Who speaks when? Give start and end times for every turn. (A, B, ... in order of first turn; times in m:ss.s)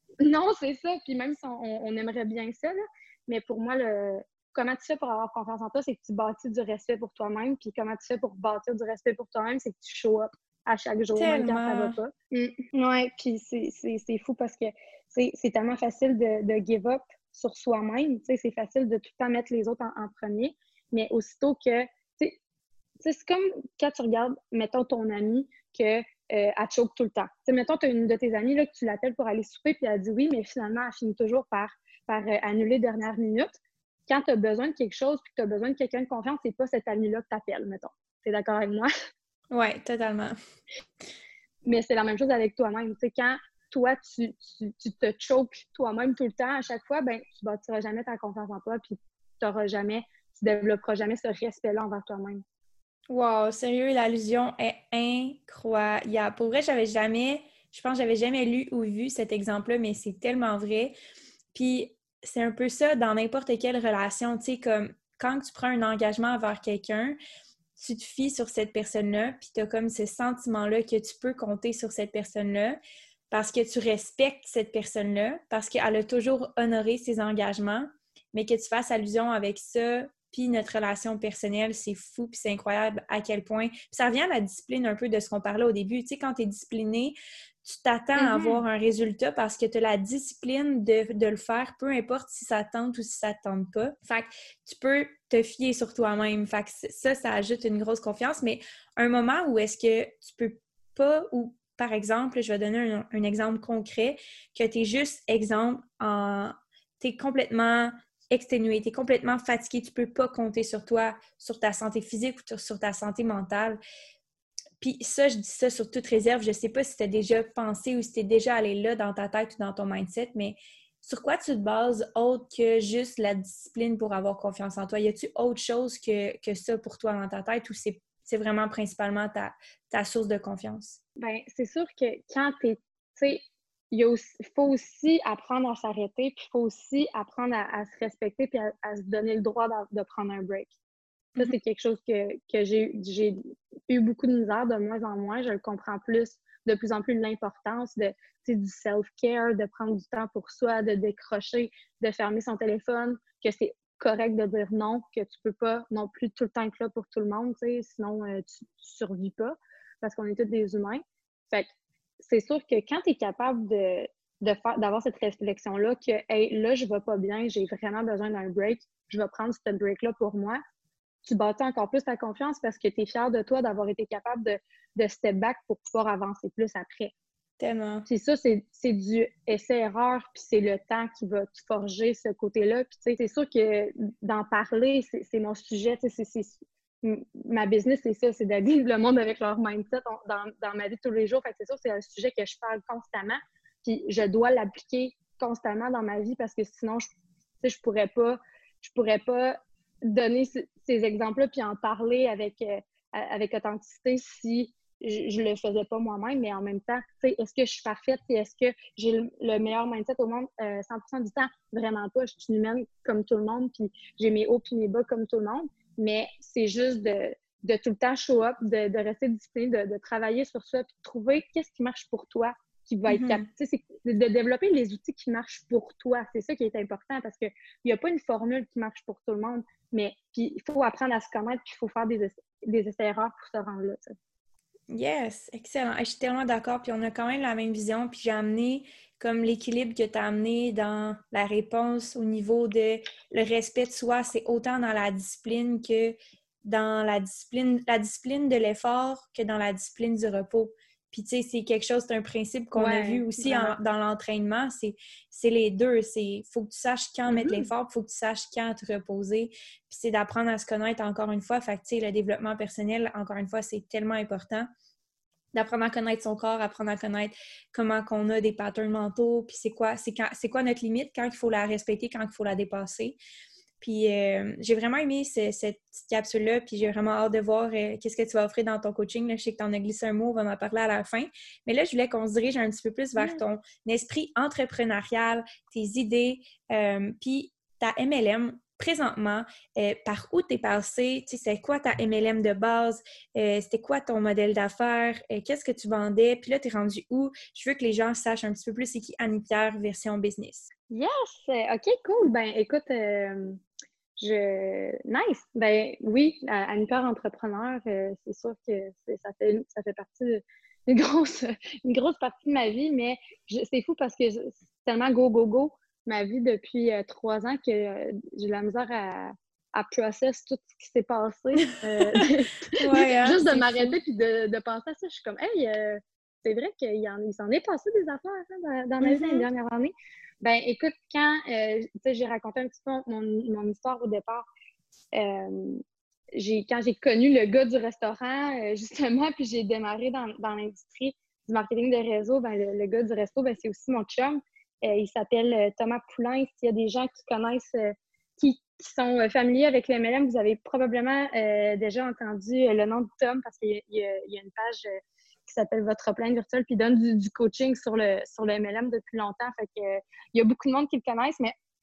0:00.2-0:22.4 A
0:11.2-0:12.0 B
0:23.0-0:33.6 A
0:34.1-0:38.9 A
0:39.5-0:40.4 B
0:41.6-0:52.4 A
0:53.1-1:00.9 B
1:01.5-1:07.2 B
1:07.8-1:12.8 B
1:13.3-1:53.8 B
1:28.2-1:28.6 A
1:54.8-2:11.0 B
2:11.2-2:20.7 A
2:21.3-2:23.4 A
2:23.9-2:50.6 A
2:51.2-2:57.1 A
2:57.6-2:58.1 B
2:58.1-3:17.1 A
3:17.6-3:54.1 A
3:43.1-3:43.4 B
3:54.9-4:24.7 B
4:12.7-4:13.7 A
4:17.3-4:17.6 A
4:25.5-4:33.2 B
4:33.8-5:00.7 B
4:43.2-4:43.4 A
5:00.9-5:03.6 A
5:04.2-5:34.5 A
5:21.7-5:22.2 B
5:22.8-5:24.0 B
5:29.0-5:29.5 B
5:35.1-5:35.8 A
5:36.3-6:01.5 A